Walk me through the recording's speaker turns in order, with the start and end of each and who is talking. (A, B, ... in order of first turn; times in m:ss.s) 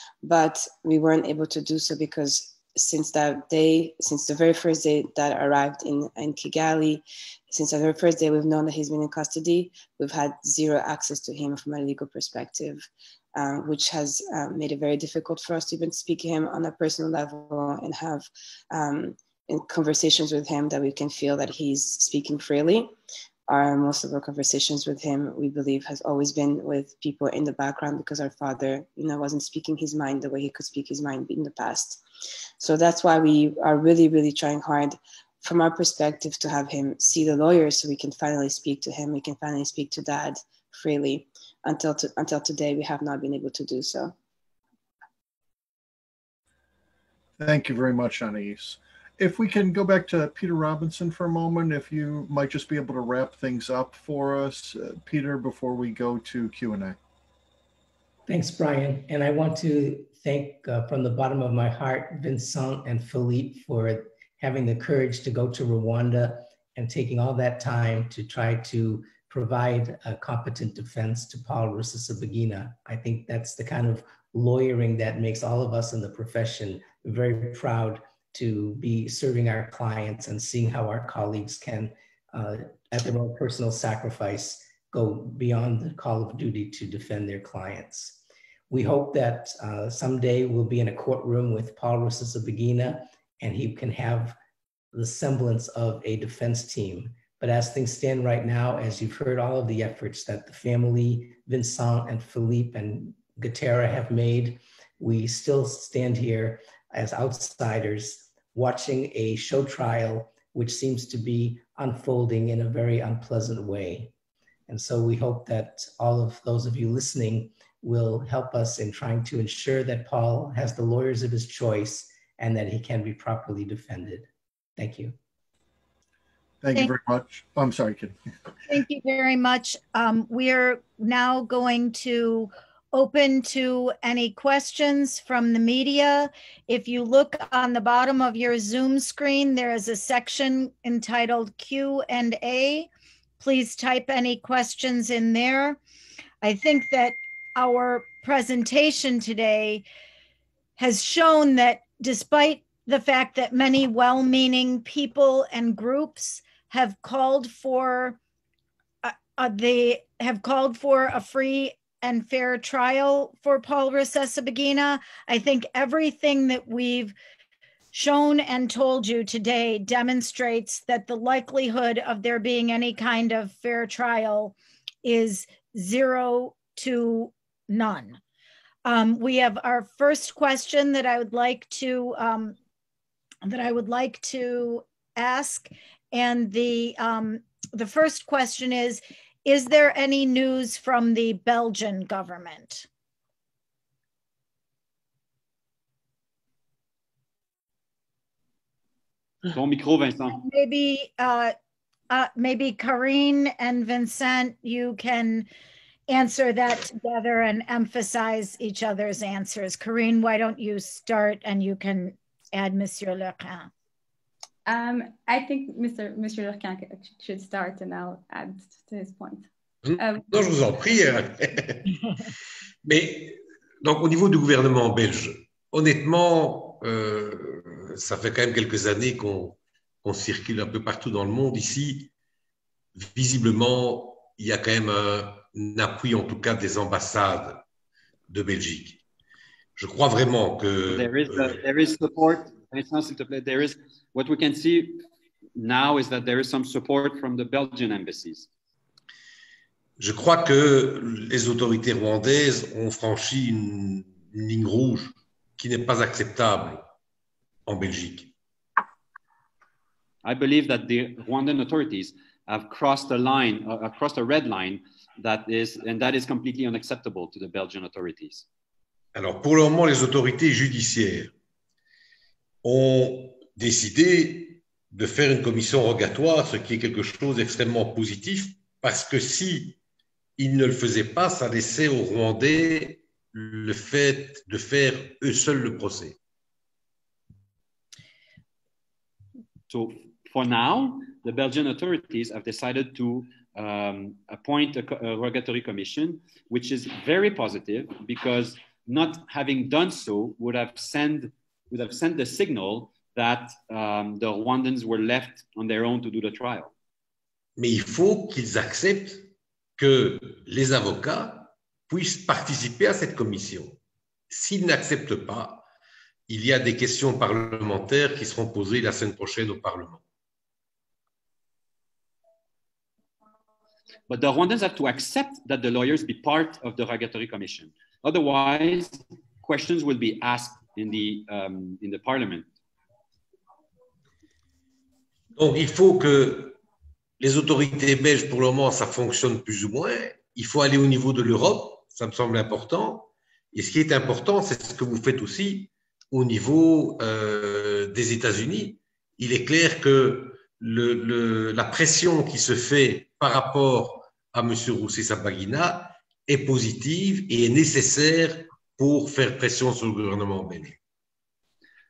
0:00.2-0:22.9 A
0:23.5-0:32.0 A
0:32.6-0:44.1 A
0:47.4-0:57.0 B
0:58.3-1:34.4 C
1:34.9-1:54.1 C
1:54.7-2:05.1 C
2:06.6-2:08.2 B
2:08.7-2:22.9 D
2:23.4-2:25.8 D
2:26.4-2:29.8 D
2:30.8-2:38.2 D
2:39.0-2:47.1 D
2:47.9-2:58.2 D
2:58.8-3:02.6 D
3:03.4-3:12.9 D
3:19.5-3:20.4 E
3:20.4-3:21.5 D
3:22.1-3:25.5 D
3:26.1-3:33.7 D
3:34.6-3:40.2 F
3:39.8-3:42.1 G
3:42.8-3:52.1 G
3:53.0-3:57.6 G
3:58.3-3:59.0 G
3:59.8-4:01.6 G
4:00.9-4:05.0 E
4:05.6-4:08.5 E
4:10.0-4:16.8 G
4:17.6-4:18.3 G
4:20.2-4:28.5 E
4:29.1-4:31.3 G
4:32.6-4:39.8 G
4:40.4-4:46.2 G
4:49.7-5:06.7 E
5:07.6-5:13.8 G
5:14.3-5:15.6 G
5:16.3-5:20.0 G
5:24.1-5:32.5 E
5:35.4-5:36.6 G
5:37.2-6:00.8 G